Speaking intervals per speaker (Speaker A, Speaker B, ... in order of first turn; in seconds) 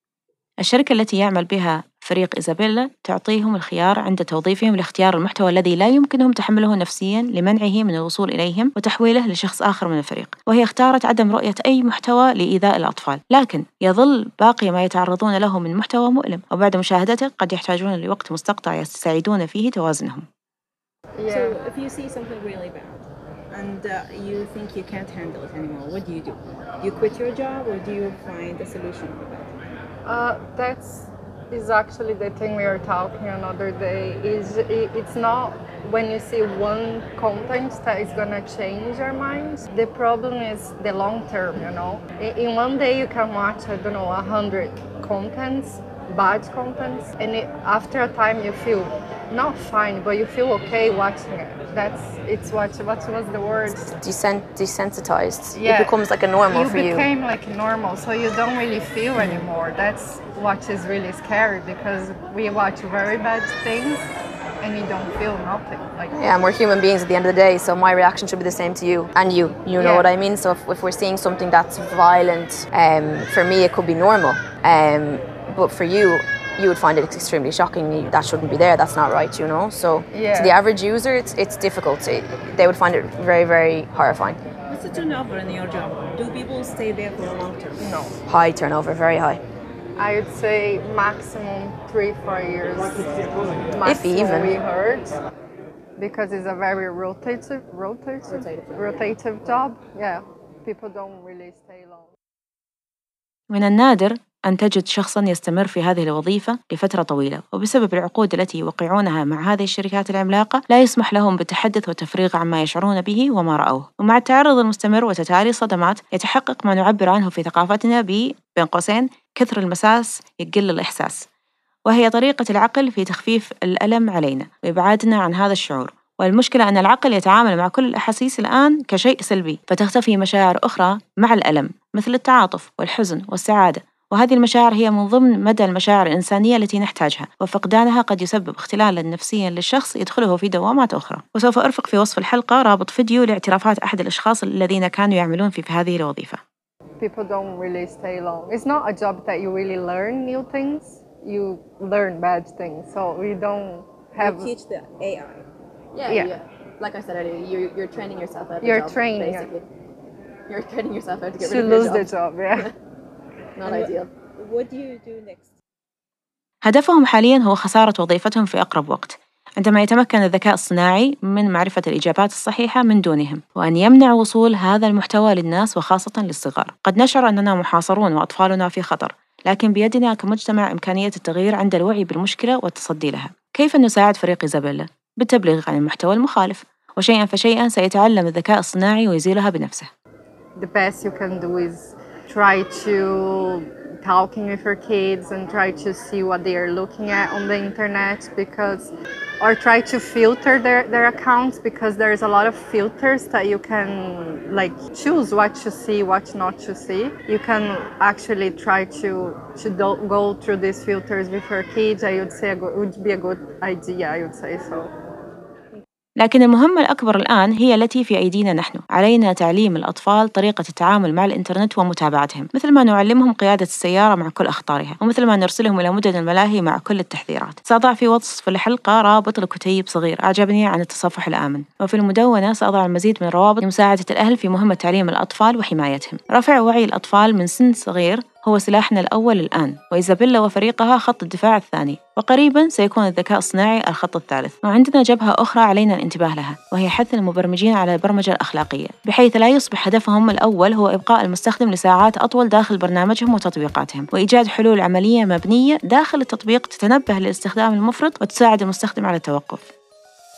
Speaker A: 0.6-20.3, 103.5-121.3, 121.9-146.4, 166.6-189.9, 216.2-259.7
Speaker B: 21.2-21.6, 30.1-53.9, 55.5-64.1, 64.6-66.2, 69.8-70.1, 80.1-80.6, 87.8-88.2, 90.0-95.2, 96.0-102.1, 147.0-154.5, 156.1-156.3, 158.6-159.5, 161.4-162.7, 190.6-214.9
Speaker C: 21.3-29.6, 84.7-88.1, 154.2-155.4, 163.6-165.5
Speaker D: 53.9-57.1, 59.2-59.4, 66.2-84.4, 88.3-89.4, 93.8-94.6, 98.4-98.8, 155.9-159.7, 160.5-162.7, 163.6-164.1